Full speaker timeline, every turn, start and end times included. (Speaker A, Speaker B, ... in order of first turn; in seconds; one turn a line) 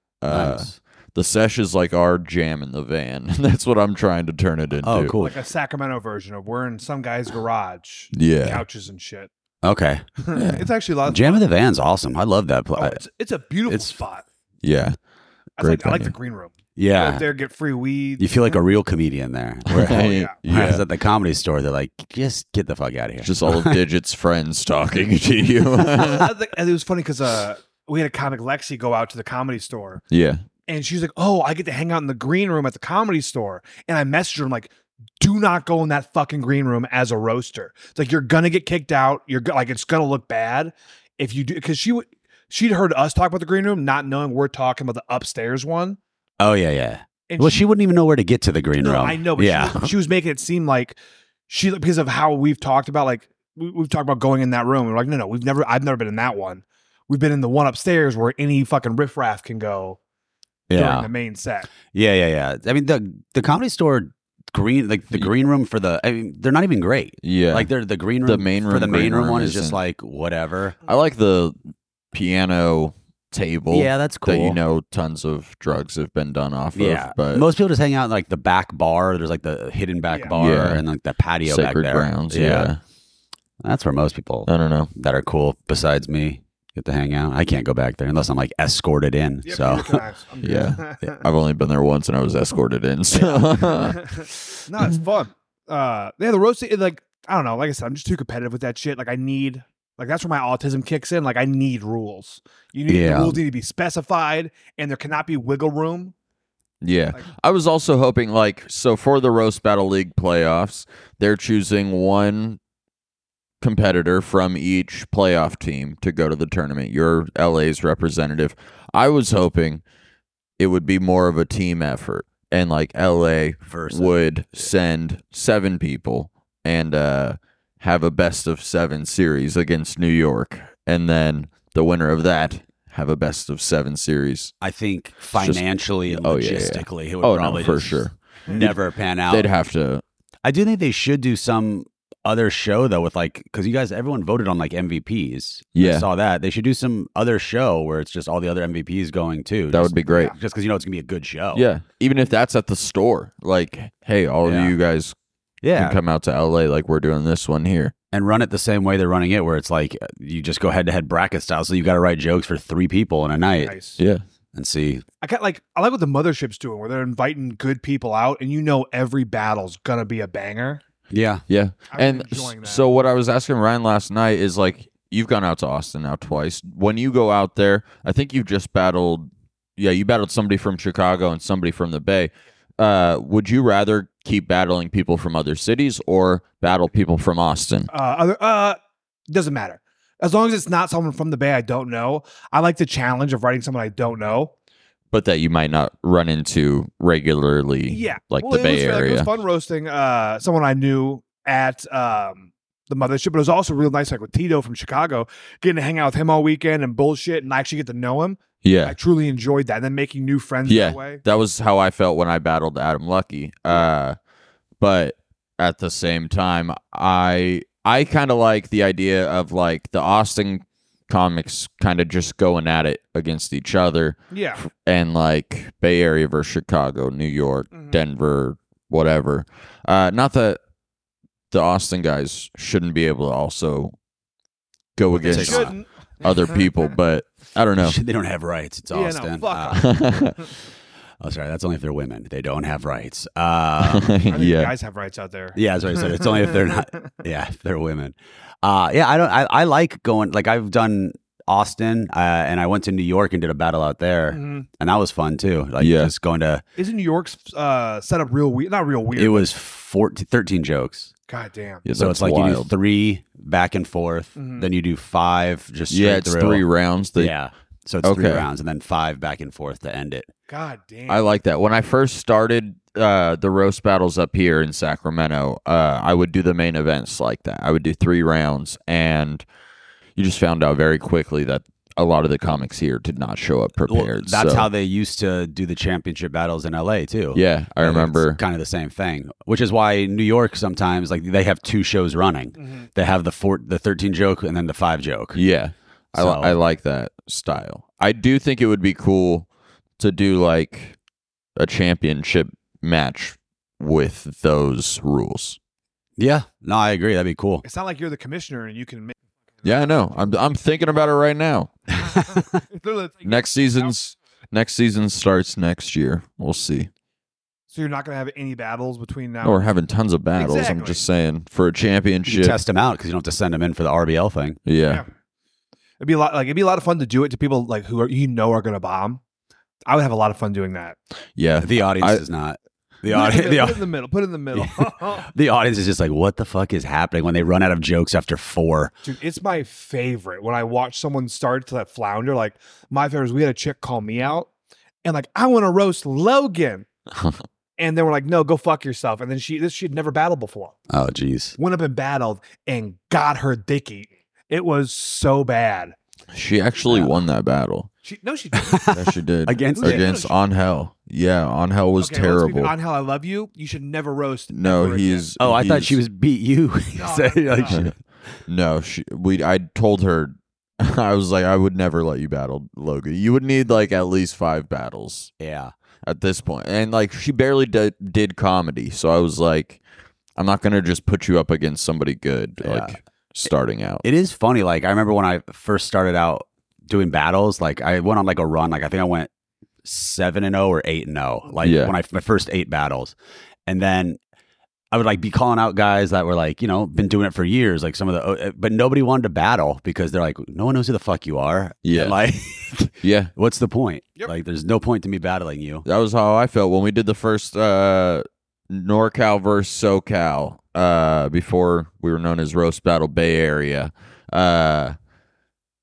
Speaker A: 0.2-5.2
Speaker B: 0.3-0.8
Speaker B: 4.8-5.4
Speaker C: 5.2-9.3
Speaker A: 8.1-8.6
Speaker B: 9.6-10.1
Speaker C: 10.2-11.4
Speaker A: 10.3-10.6
Speaker B: 11.1-13.0
Speaker C: 12.8-14.2
Speaker B: 13.7-13.9
Speaker A: 14.6-15.0
Speaker C: 15.6-18.6
Speaker A: 15.6-16.1
Speaker B: 16.8-17.3
Speaker B: 18.2-23.8
Speaker A: 19.7-20.8
Speaker C: 19.8-20.3
Speaker A: 23.2-26.3
Speaker C: 25.8-30.0
Speaker A: 30.1-30.4
Speaker C: 30.7-46.0
Speaker B: 46.4-49.9
Speaker C: 47.3-47.6
Speaker C: 48.8-51.0
Speaker C: 51.5-60.0
Speaker B: 60.7-61.1
Speaker C: 60.7-61.7
Speaker B: 61.9-70.8
Speaker A: 67.2-67.7
Speaker A: 68.2-69.8
Speaker A: 70.9-71.6
Speaker A: 72.1-77.5
Speaker B: 73.7-74.6
Speaker B: 76.8-82.7
Speaker C: 80.1-80.3
Speaker A: 80.3-80.8
Speaker A: 81.4-82.8
Speaker B: 83.6-90.0
Speaker A: 84.5-84.9
Speaker C: 89.4-91.2
Speaker A: 90.4-94.9
Speaker C: 93.2-106.1
Speaker B: 102.9-103.4
Speaker A: 106.8-112.6
Speaker A: 113.6-119.8
Speaker A: 120.6-134.5
Speaker B: 123.6-124.2
Speaker B: 134.6-139.5
Speaker A: 135.3-138.8
Speaker A: 139.3-140.0
Speaker B: 140.4-151.6
Speaker A: 145.8-146.1
Speaker A: 149.7-150.3
Speaker A: 151.5-155.1
Speaker B: 154.4-154.7
Speaker B: 155.6-156.0
Speaker A: 155.8-157.9
Speaker B: 158.1-163.8
Speaker C: 163.6-164.0
Speaker A: 164.0-164.2
Speaker B: 164.5-165.0
Speaker C: 165.2-170.8
Speaker B: 171.1-171.4
Speaker A: 171.5-187.9
Speaker C: 171.9-172.9
Speaker C: 187.9-188.8
Speaker C: 189.3-194.5
Speaker A: 195.1-199.3
Speaker C: 197.9-211.2
Speaker A: 208.6-208.9
Speaker A: 210.7-214.2
Speaker A: 214.8-230.6
Speaker C: 224.3-224.6
Speaker C: 227.7-228.0
Speaker A: 231.5-233.9
Speaker A: 234.9-238.0
Speaker C: 235.1-236.8
Speaker B: 235.2-235.8
Speaker B: 237.8-239.8
Speaker C: 238.9-239.9
Speaker A: 239.8-240.5
Speaker B: 241.2-244.1
Speaker A: 243.8-244.7
Speaker C: 244.3-246.8
Speaker B: 245.6-256.6
Speaker C: 254.3-254.7
Speaker A: 255.8-256.1
Speaker C: 256.8-259.5
Speaker B: 259.2-261.1
Speaker C: 261.3-261.9
Speaker A: 261.9-262.7
Speaker B: 261.9-266.6
Speaker C: 264.4-264.7
Speaker A: 265.9-267.3
Speaker B: 267.2-270.3
Speaker A: 268.0-268.5
Speaker C: 270.5-271.4
Speaker A: 271.1-279.4
Speaker A: 280.2-284.7
Speaker B: 283.9-295.4
Speaker A: 287.3-288.4
Speaker C: 292.6-292.9
Speaker A: 295.3-299.5
Speaker B: 296.1-296.6
Speaker A: 300.0-300.9
Speaker A: 301.6-305.6
Speaker B: 306.2-307.6
Speaker C: 307.6-310.4
Speaker A: 309.6-312.1
Speaker C: 312.3-314.0
Speaker A: 313.2-316.9
Speaker C: 317.7-319.7
Speaker A: 319.4-322.6
Speaker C: 320.4-321.0
Speaker B: 322.2-324.6
Speaker A: 324.6-325.0
Speaker C: 326.0-329.2
Speaker C: 329.9-331.0
Speaker A: 331.4-332.2
Speaker B: 331.6-333.9
Speaker C: 333.1-335.3
Speaker B: 334.5-338.9
Speaker C: 339.0-344.5
Speaker C: 345.0-346.9
Speaker A: 347.1-347.4
Speaker C: 347.8-350.8
Speaker B: 350.9-351.6
Speaker C: 351.6-355.9
Speaker A: 356.3-357.9
Speaker C: 358.0-358.9
Speaker B: 358.5-360.1
Speaker A: 358.9-362.7
Speaker C: 359.7-360.4
Speaker C: 362.0-365.3
Speaker A: 364.5-366.0
Speaker B: 365.4-368.0
Speaker C: 366.9-367.8
Speaker A: 368.5-375.3
Speaker B: 375.4-375.7
Speaker A: 376.0-379.8
Speaker A: 380.4-384.0
Speaker B: 382.6-383.0
Speaker B: 384.0-389.3
Speaker B: 389.8-393.1
Speaker A: 391.6-391.9
Speaker B: 393.6-394.2
Speaker B: 394.9-405.9
Speaker A: 401.9-402.1
Speaker A: 403.0-403.3
Speaker A: 405.9-415.0